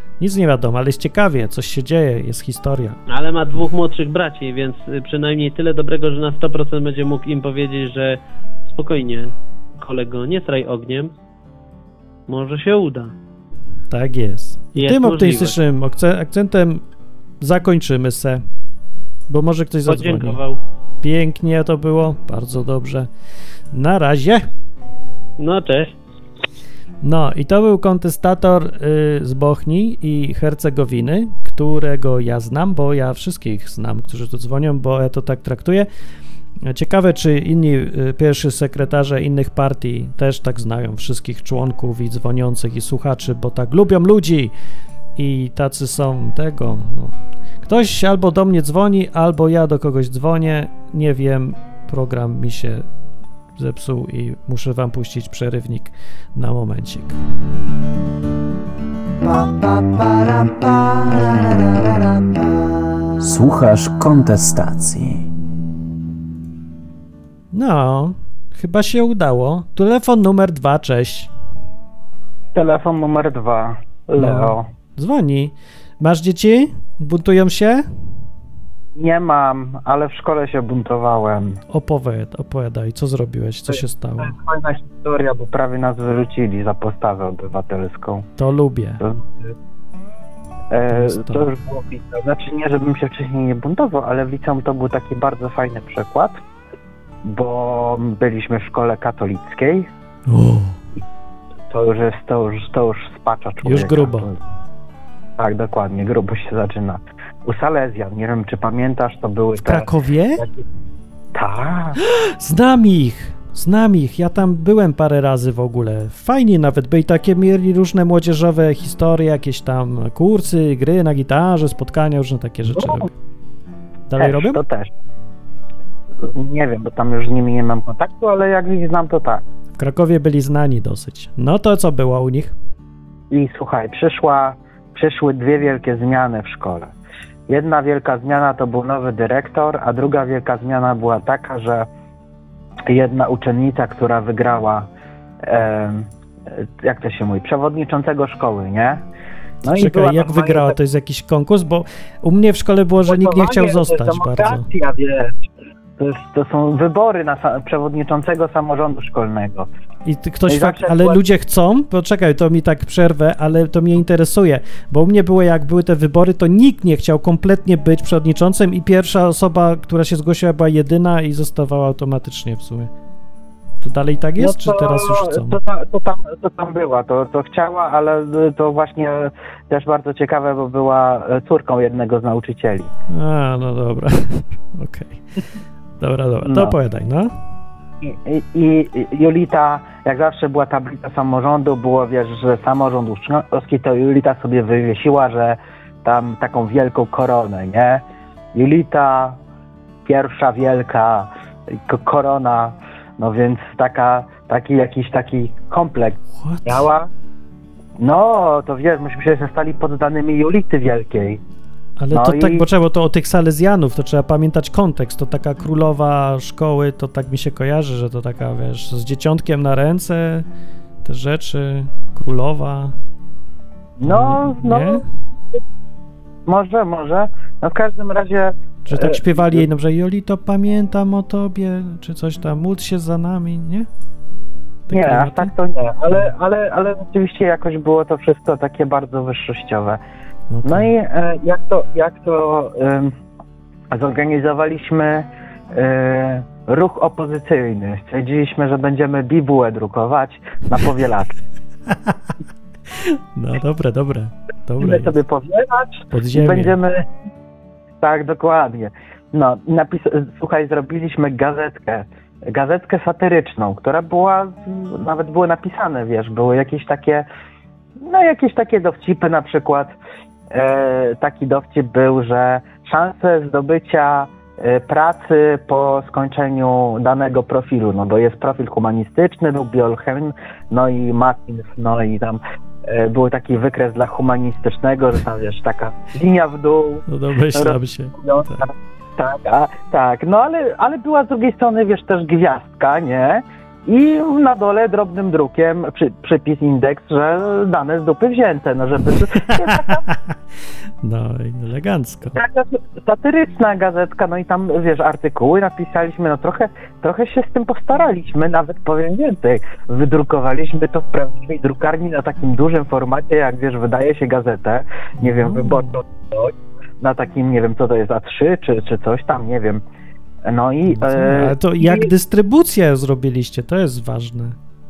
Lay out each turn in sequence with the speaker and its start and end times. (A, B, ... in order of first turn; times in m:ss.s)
0:00.2-0:03.0 A
0:03.1-0:11.1 B
0:12.3-0:13.1 B
0:13.9-0:16.8 A
0:14.8-0:15.6 B
0:17.4-0:18.4 A
0:19.3-0:20.4 A
0:19.9-0:20.6 B
0:21.0-0:23.1 A
0:23.7-0:24.5 A
0:25.4-0:25.9 B
0:27.0-0:35.9 A
0:36.6-0:44.5 A
0:45.2-0:52.8 A
0:53.6-0:57.2 A
1:00.0-1:00.4 C
1:03.2-1:05.2 C
1:07.5-1:11.3 A
1:12.6-1:14.7 D
1:14.2-1:17.9 A
1:19.0-1:21.6 D
1:21.7-1:24.4 A
1:23.7-1:28.3 D
1:28.4-1:29.0 A
1:29.0-1:29.5 D
1:30.7-1:36.4 D
1:30.9-1:31.5 A
1:37.2-1:39.9 D
1:40.3-1:40.8 A
1:41.7-1:44.4 D
1:43.6-1:44.3 A
1:45.4-1:50.6 D
1:49.6-1:50.4 A
1:51.4-1:52.0 D
1:52.0-2:03.1 A
2:02.8-2:03.1 D
2:04.1-2:04.6 A
2:04.2-2:04.9 D
2:06.3-2:09.4 D
2:09.8-2:12.5 A
2:13.3-2:16.9 D
2:17.5-2:21.9 D
2:22.9-2:24.9 D
2:25.5-2:26.1 D
2:26.8-2:29.0 D
2:29.6-2:30.8 D
2:29.6-2:34.7 A
2:33.1-2:35.4 D
2:36.0-2:39.7 D
2:40.0-2:52.9 A
2:40.5-2:41.2 D
2:53.8-2:55.6 A
2:54.4-3:02.9 D
3:03.1-3:05.2 A
3:06.0-3:07.3 A
3:06.5-3:06.8 D
3:08.0-3:18.0 D
3:18.6-3:19.4 D
3:20.0-3:21.3 D
3:21.8-3:27.1 D
3:26.3-3:26.9 A
3:28.0-3:31.4 D
3:32.0-3:40.5 A
3:32.1-3:32.6 D
3:41.0-3:43.0 A
3:44.0-3:45.6 D
3:44.0-3:45.0 A
3:46.5-3:49.6 D
3:48.9-3:53.9 A
3:54.9-3:55.5 A
3:54.9-4:00.0 D
4:00.5-4:00.9 A
4:00.6-4:03.1 D
4:03.9-4:11.3 D
4:11.9-4:12.2 A
4:12.9-4:15.2 A
4:14.8-4:17.0 D
4:16.1-4:16.8 A
4:18.0-4:27.3 D
4:28.0-4:29.9 D
4:30.5-4:47.0 D
4:47.1-4:48.6 A
4:47.6-5:00.0 D
4:59.6-5:00.1 A
5:01.0-5:02.4 A
5:02.4-5:19.8 D
5:15.2-5:16.0 A
5:20.5-5:22.1 D
5:20.9-5:24.6 A